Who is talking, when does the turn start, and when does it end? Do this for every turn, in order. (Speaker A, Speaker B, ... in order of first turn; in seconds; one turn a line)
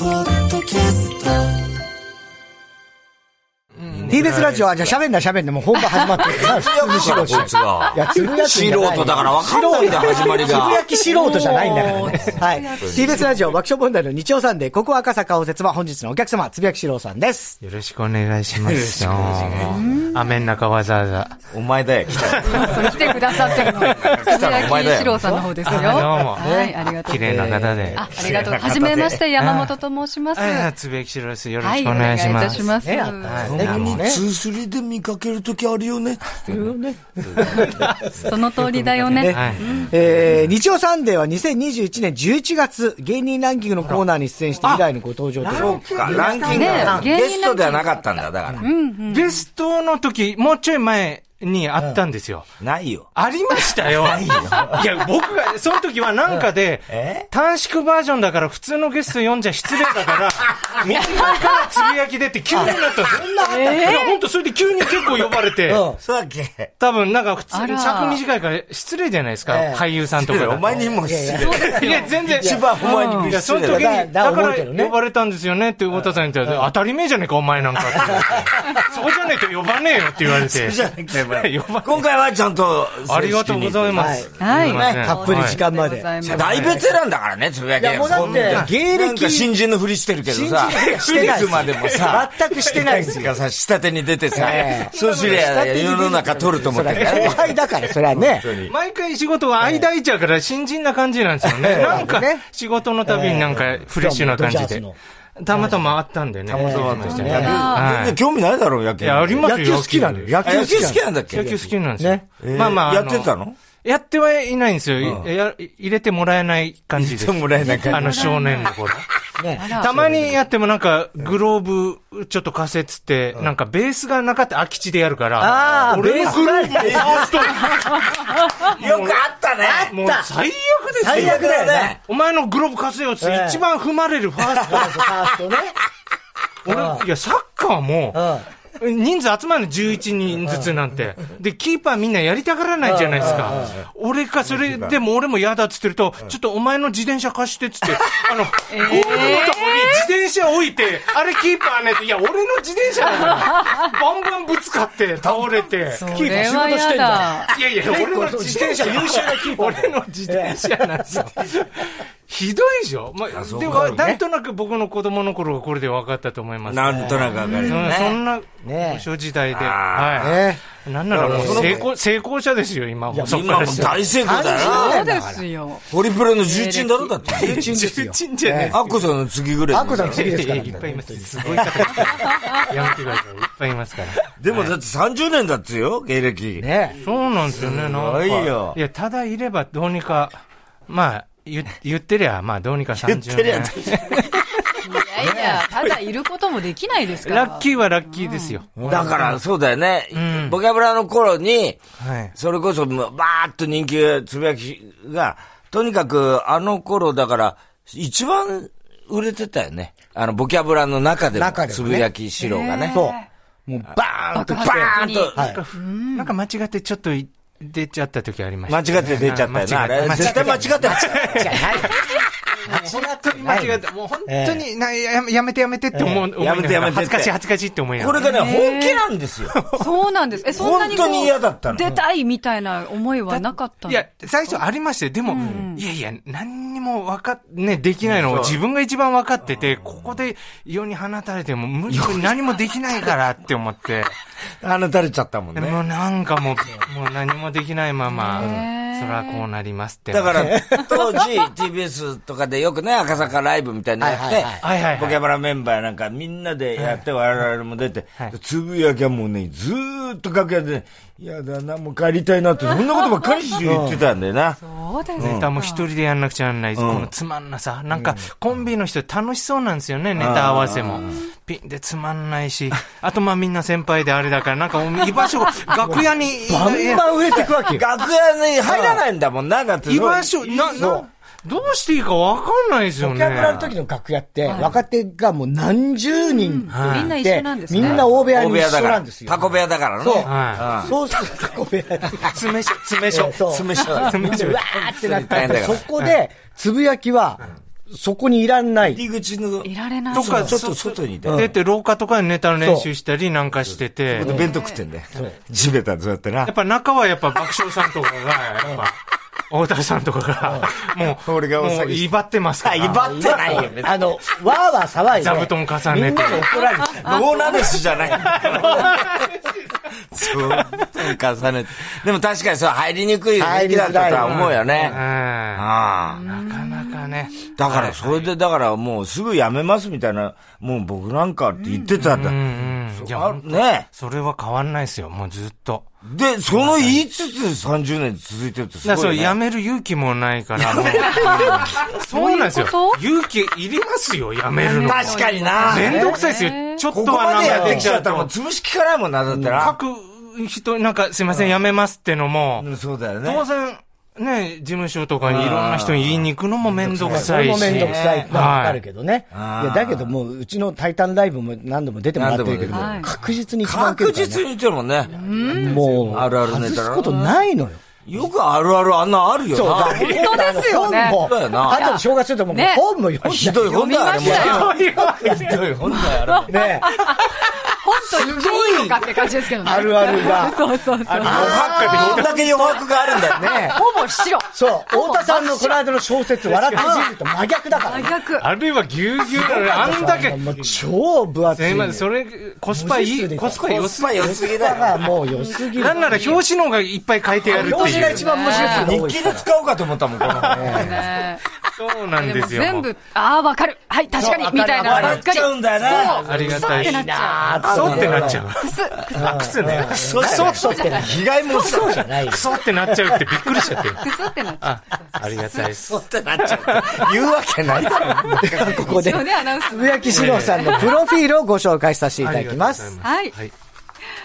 Speaker A: 0.5-1.1
Speaker B: 3.8-4.6
Speaker A: 4.0-4.5
Speaker C: 4.1-17.6
Speaker D: 5.9-6.5
Speaker A: 6.3-10.8
Speaker D: 7.5-8.0
Speaker D: 9.7-13.4
Speaker A: 11.4-13.3
Speaker B: 17.6-21.3
Speaker A: 18.6-20.0
Speaker D: 19.6-20.4
Speaker A: 21.5-25.5
Speaker B: 22.1-24.2
Speaker D: 22.4-27.3
Speaker B: 25.6-26.5
Speaker C: 25.7-28.0
Speaker B: 27.0-28.4
Speaker D: 27.9-30.7
Speaker A: 28.1-29.2
Speaker B: 29.4-29.8
Speaker B: 30.4-32.7
Speaker D: 31.6-33.5
Speaker C: 32.8-34.2
Speaker B: 33.3-34.0
Speaker A: 33.3-36.8
Speaker C: 36.5-38.3
Speaker B: 37.3-38.1
Speaker D: 37.5-39.9
Speaker C: 39.1-47.1
Speaker B: 39.3-39.7
Speaker A: 39.5-40.5
Speaker B: 44.6-44.9
Speaker A: 45.4-48.6
Speaker B: 45.5-46.9
Speaker D: 46.4-49.4
Speaker B: 49.1-52.5
Speaker A: 52.6-53.1
Speaker B: 53.1-65.8
Speaker A: 53.9-54.9
Speaker A: 56.9-57.3
Speaker A: 60.5-60.8
Speaker D: 60.9-61.9
Speaker C: 62.5-64.0
Speaker D: 63.4-64.2
Speaker C: 65.7-66.0
Speaker A: 66.0-66.7
Speaker B: 66.8-70.8
Speaker D: 67.5-68.2
Speaker C: 69.5-69.8
Speaker A: 70.1-74.0
Speaker C: 70.7-72.9
Speaker D: 71.4-72.1
Speaker B: 71.5-72.6
Speaker D: 72.8-73.3
Speaker B: 73.3-82.0
Speaker C: 73.5-75.0
Speaker C: 76.4-76.7
Speaker A: 77.8-78.5
Speaker C: 78.0-78.7
Speaker A: 80.3-85.0
Speaker B: 83.1-85.6
Speaker C: 84.0-84.3
Speaker D: 84.4-86.8
Speaker C: 84.8-86.9
Speaker A: 86.2-97.6
Speaker C: 87.8-89.5
Speaker B: 88.2-88.7
Speaker C: 90.3-93.3
Speaker B: 90.7-93.2
Speaker C: 94.3-98.5
Speaker B: 94.3-95.6
Speaker B: 96.9-97.6
Speaker A: 98.1-98.7
Speaker B: 98.7-104.8
Speaker C: 99.6-99.9
Speaker C: 101.4-102.4
Speaker A: 101.7-102.1
Speaker C: 103.1-105.0
Speaker B: 105.4-108.2
Speaker C: 105.5-105.9
Speaker A: 106.5-109.5
Speaker C: 106.5-107.6
Speaker D: 107.2-107.9
Speaker B: 109.0-113.3
Speaker C: 109.4-112.2
Speaker A: 110.4-111.5
Speaker A: 112.4-113.6
Speaker B: 113.8-119.1
Speaker A: 115.0-115.3
Speaker A: 117.0-118.4
Speaker D: 117.6-118.7
Speaker C: 119.4-120.3
Speaker D: 119.6-119.9
Speaker B: 119.7-129.2
Speaker C: 125.4-127.4
Speaker A: 125.7-127.5
Speaker A: 128.6-129.9
Speaker C: 129.6-130.3
Speaker B: 129.9-131.5
Speaker C: 131.0-131.9
Speaker A: 131.1-132.0
Speaker B: 132.0-134.8
Speaker C: 133.2-133.6
Speaker C: 134.4-135.8
Speaker B: 136.7-138.3
Speaker C: 136.7-137.1
Speaker C: 138.1-138.5
Speaker B: 138.8-156.6
Speaker C: 140.4-140.7
Speaker C: 142.8-143.8
Speaker A: 143.2-143.8
Speaker A: 144.5-145.0
Speaker D: 148.7-150.1
Speaker C: 153.2-153.5
Speaker D: 153.2-153.8
Speaker D: 155.9-157.5
Speaker C: 156.1-161.5
Speaker B: 157.5-174.1
Speaker A: 163.3-164.0
Speaker C: 163.6-164.2
Speaker A: 166.7-168.2
Speaker C: 166.9-167.6
Speaker D: 167.3-167.9
Speaker C: 168.6-169.1
Speaker A: 169.5-170.5
Speaker C: 170.2-170.6
Speaker A: 171.1-171.8
Speaker C: 171.2-171.9
Speaker C: 173.1-175.4
Speaker A: 173.2-175.1
Speaker D: 174.3-175.9
Speaker A: 175.9-177.7
Speaker D: 176.4-177.2
Speaker C: 177.3-178.8
Speaker B: 177.3-179.1
Speaker A: 178.7-180.8
Speaker C: 179.7-182.6
Speaker B: 180.0-184.7
Speaker A: 184.4-186.7
Speaker C: 186.6-187.0
Speaker B: 187.0-194.8
Speaker A: 187.6-188.8
Speaker A: 193.0-194.3
Speaker D: 194.8-198.6
Speaker C: 195.2-195.7
Speaker B: 197.2-199.4
Speaker A: 198.8-201.8
Speaker C: 198.8-199.2
Speaker B: 200.1-200.6
Speaker B: 202.0-202.3
Speaker A: 202.3-213.0
Speaker C: 211.3-212.1
Speaker D: 212.4-213.3
Speaker C: 212.9-215.6
Speaker D: 214.3-216.3
Speaker A: 214.6-215.4
Speaker B: 215.4-228.2
Speaker A: 218.7-221.7
Speaker C: 220.0-222.0
Speaker C: 222.6-224.6
Speaker C: 225.9-226.2
Speaker A: 226.4-227.3
Speaker A: 228.0-229.6
Speaker D: 228.2-229.0
Speaker B: 229.5-229.9
Speaker D: 229.7-234.1
Speaker A: 230.5-232.0
Speaker B: 233.3-244.1
Speaker D: 235.3-235.8
Speaker A: 238.0-238.6
Speaker A: 239.5-240.2
Speaker A: 241.9-242.3
Speaker A: 244.6-245.8
Speaker B: 245.6-250.5
Speaker D: 248.1-249.4
Speaker A: 250.1-264.6
Speaker C: 250.3-250.9
Speaker D: 250.8-251.2
Speaker C: 254.0-254.6
Speaker B: 254.6-255.2
Speaker B: 256.8-257.0
Speaker D: 262.6-263.4
Speaker C: 263.6-264.0
Speaker D: 264.6-265.9
Speaker A: 265.2-265.5
Speaker B: 265.2-277.5
Speaker A: 266.8-267.1
Speaker C: 267.9-268.2
Speaker A: 270.2-271.2
Speaker C: 275.8-277.9
Speaker A: 277.7-281.0
Speaker C: 278.6-279.0
Speaker B: 279.9-283.6
Speaker C: 280.8-281.1
Speaker C: 283.0-292.4
Speaker A: 283.3-283.7
Speaker D: 284.5-284.8
Speaker D: 286.2-288.0
Speaker B: 286.7-287.1
Speaker A: 287.8-290.9
Speaker B: 290.2-290.8
Speaker B: 292.2-296.2
Speaker C: 293.1-299.0
Speaker A: 293.4-295.9
Speaker A: 298.9-301.4
Speaker D: 299.6-300.5
Speaker B: 300.1-304.4
Speaker C: 301.2-301.6
Speaker C: 302.6-302.9
Speaker A: 304.1-306.5
Speaker C: 304.2-304.6
Speaker D: 304.3-304.8
Speaker B: 306.4-313.6
Speaker C: 310.4-310.7
Speaker A: 311.1-312.1
Speaker A: 312.6-314.0
Speaker C: 312.9-317.3
Speaker B: 315.1-316.5
Speaker D: 316.5-317.9
Speaker A: 317.0-318.9
Speaker C: 318.1-319.0
Speaker B: 318.1-321.1
Speaker A: 320.1-325.0
Speaker C: 323.4-324.8
Speaker B: 324.1-325.7
Speaker A: 325.6-326.2
Speaker D: 326.1-327.5
Speaker B: 326.2-328.3
Speaker A: 327.6-333.9
Speaker D: 331.6-331.9
Speaker B: 332.0-335.9
Speaker A: 336.0-339.4
Speaker B: 336.5-337.0
Speaker B: 338.8-348.3
Speaker A: 340.6-341.9
Speaker D: 340.9-343.0
Speaker D: 344.6-346.8
Speaker A: 344.8-346.0
Speaker C: 345.7-346.1
Speaker A: 346.9-349.8
Speaker C: 347.4-347.9
Speaker C: 349.3-349.7
Speaker B: 349.6-352.7
Speaker A: 352.6-353.4
Speaker B: 353.2-358.8
Speaker A: 355.2-358.4
Speaker C: 357.0-364.4
Speaker A: 359.3-360.1
Speaker A: 362.2-365.1
Speaker D: 362.7-363.1
Speaker D: 365.1-365.8
Speaker B: 365.1-366.3
Speaker C: 365.5-367.8
Speaker A: 366.1-367.1
Speaker A: 368.1-370.1
Speaker C: 369.5-375.5
Speaker B: 369.9-370.2
Speaker D: 369.9-372.8
Speaker A: 371.2-371.8
Speaker A: 373.2-376.6
Speaker D: 373.6-374.7
Speaker B: 374.2-375.7
Speaker D: 375.9-385.8
Speaker C: 376.5-377.0
Speaker B: 376.9-377.4
Speaker C: 378.0-380.6
Speaker A: 381.1-383.5
Speaker C: 381.1-382.3
Speaker B: 381.2-382.6
Speaker C: 383.3-383.8
Speaker C: 384.5-388.1
Speaker B: 386.4-387.0
Speaker D: 386.8-387.0
Speaker D: 387.7-388.5
Speaker B: 388.4-390.4
Speaker C: 389.2-392.1
Speaker B: 391.6-395.1
Speaker C: 392.7-396.4
Speaker A: 393.5-395.1
Speaker D: 395.3-396.4
Speaker B: 395.7-398.6
Speaker D: 397.4-398.9
Speaker C: 397.5-399.5
Speaker A: 398.5-401.1
Speaker B: 400.2-401.0
Speaker D: 400.4-401.4
Speaker C: 400.4-401.0
Speaker B: 401.8-402.9
Speaker D: 402.2-407.9
Speaker B: 404.1-405.2
Speaker A: 404.8-406.3
Speaker C: 406.0-408.4
Speaker B: 406.1-407.0
Speaker A: 407.6-408.4
Speaker B: 407.6-410.7
Speaker D: 408.6-409.5
Speaker C: 409.1-414.0
Speaker A: 409.6-412.1
Speaker D: 410.3-412.0
Speaker B: 412.3-414.1
Speaker D: 414.0-415.4
Speaker B: 414.6-417.1
Speaker A: 415.9-419.2
Speaker B: 418.0-418.4
Speaker C: 418.3-422.9
Speaker D: 418.6-421.0
Speaker B: 420.1-420.9
Speaker B: 422.2-423.5
Speaker D: 423.0-423.4